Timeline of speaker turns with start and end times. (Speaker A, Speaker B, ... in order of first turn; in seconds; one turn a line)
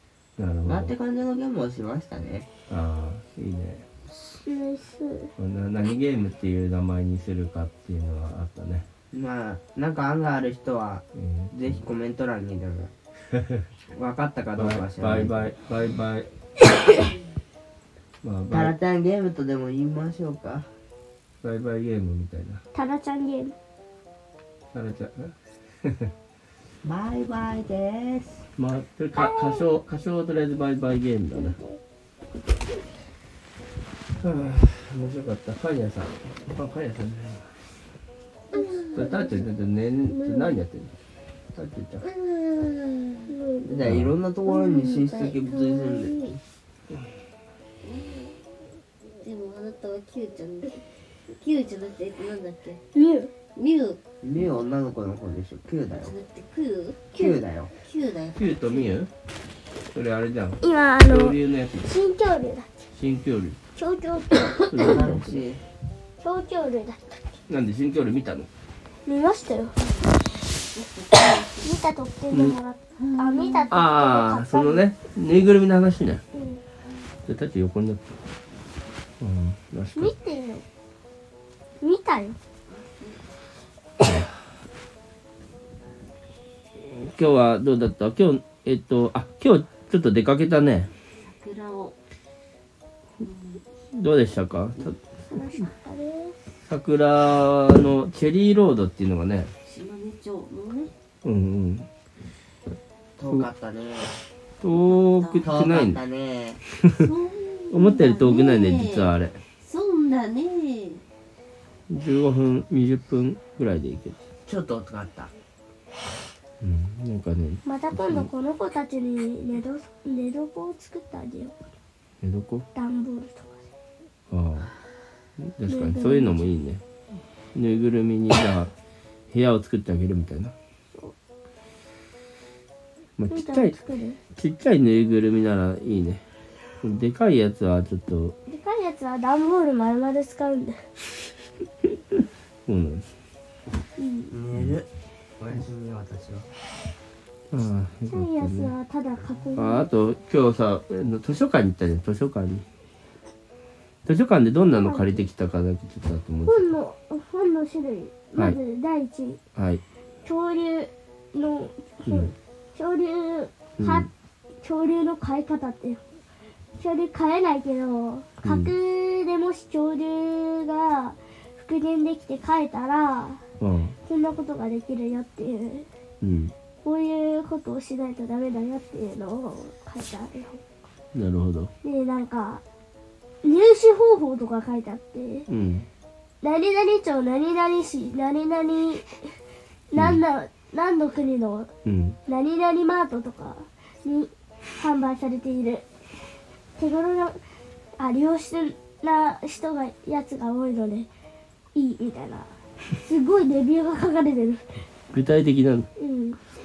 Speaker A: 0.4-0.9
Speaker B: 0.7-2.5
Speaker A: 2.7-3.9
Speaker C: 4.1-5.3
Speaker A: 5.4-8.9
Speaker B: 9.1-12.9
Speaker A: 11.2-11.8
Speaker A: 13.3-13.6
Speaker B: 13.9-15.5
Speaker A: 14.6-16.3
Speaker A: 18.2-18.8
Speaker B: 18.5-20.7
Speaker A: 21.4-22.6
Speaker C: 22.7-23.6
Speaker A: 24.7-25.4
Speaker A: 25.9-26.1
Speaker B: 26.8-28.4
Speaker A: 28.6-31.6
Speaker C: 29.1-29.8
Speaker C: 31.4-31.8
Speaker A: 34.1-37.6
Speaker D: 38.5-39.3
Speaker C: 38.5-39.4
Speaker A: 39.0-41.0
Speaker C: 40.1-40.6
Speaker A: 41.5-42.1
Speaker D: 42.0-43.3
Speaker C: 43.3-43.9
Speaker B: 43.6-46.4
Speaker A: 43.8-44.1
Speaker C: 44.5-46.4
Speaker D: 47.8-48.4
Speaker D: 49.2-52.8
Speaker C: 52.9-53.3
Speaker D: 53.6-54.0
Speaker B: 54.2-56.1
Speaker D: 56.0-57.2
Speaker B: 57.1-57.7
Speaker D: 57.8-58.9
Speaker A: 58.4-59.1
Speaker A: 59.9-61.9
Speaker C: 60.6-62.7
Speaker A: 62.9-63.6
Speaker C: 63.8-64.7
Speaker D: 64.5-64.9
Speaker A: 64.7-65.5
Speaker B: 64.8-65.6
Speaker C: 66.2-67.2
Speaker A: 67.5-68.5
Speaker C: 69.1-69.8
Speaker D: 69.8-70.2
Speaker D: 70.7-71.8
Speaker C: 71.6-74.8
Speaker A: 72.3-72.6
Speaker D: 73.0-73.8
Speaker A: 73.7-76.2
Speaker C: 76.3-76.6
Speaker A: 77.3-78.2
Speaker A: 79.2-80.1
Speaker C: 80.0-80.6
Speaker C: 81.8-82.4
Speaker D: 82.7-83.2
Speaker A: 84.0-84.3
Speaker A: 86.8-90.9
Speaker D: 91.2-92.0
Speaker D: 93.2-93.6
Speaker A: 93.9-95.0
Speaker C: 95.3-96.4
Speaker A: 96.7-99.5
Speaker D: 99.7-100.9
Speaker A: 101.2-101.9
Speaker B: 103.2-104.2
Speaker A: 104.6-106.0
Speaker D: 104.8-105.5
Speaker B: 105.4-106.6
Speaker D: 106.9-111.0
Speaker A: 107.7-109.4
Speaker A: 111.9-114.2
Speaker B: 114.5-115.3
Speaker A: 116.6-118.3
Speaker C: 117.7-121.5
Speaker A: 122.2-122.7
Speaker C: 122.7-123.6
Speaker A: 124.3-124.7
Speaker A: 125.4-126.8
Speaker C: 125.7-126.5
Speaker A: 127.5-128.7
Speaker A: 129.3-130.5
Speaker A: 133.2-133.8
Speaker C: 133.3-134.2
Speaker A: 134.4-136.2
Speaker A: 136.8-138.4
Speaker C: 138.5-140.8
Speaker A: 142.7-143.1
Speaker C: 144.0-144.4
Speaker B: 144.3-144.9
Speaker B: 145.4-146.5
Speaker A: 147.5-148.7
Speaker C: 148.1-149.9
Speaker A: 149.6-152.7
Speaker A: 154.1-156.7
Speaker C: 154.7-155.3
Speaker C: 156.5-159.4
Speaker A: 159.6-159.8
Speaker C: 160.2-164.1
Speaker A: 162.1-162.3
Speaker A: 163.8-164.1
Speaker C: 164.6-166.0
Speaker C: 166.8-173.4
Speaker A: 168.4-168.7
Speaker A: 173.6-174.0
Speaker C: 174.1-175.9
Speaker A: 176.2-176.5
Speaker C: 176.8-180.6
Speaker A: 181.1-181.7
Speaker C: 181.8-182.6
Speaker C: 183.4-185.5
Speaker A: 185.5-185.9
Speaker C: 186.4-189.3
Speaker C: 189.9-191.7
Speaker A: 190.0-190.2
Speaker A: 191.8-192.2
Speaker C: 192.3-195.9
Speaker C: 196.8-197.4
Speaker C: 198.0-201.1
Speaker C: 201.8-204.7
Speaker A: 205.1-205.9
Speaker C: 206.0-206.4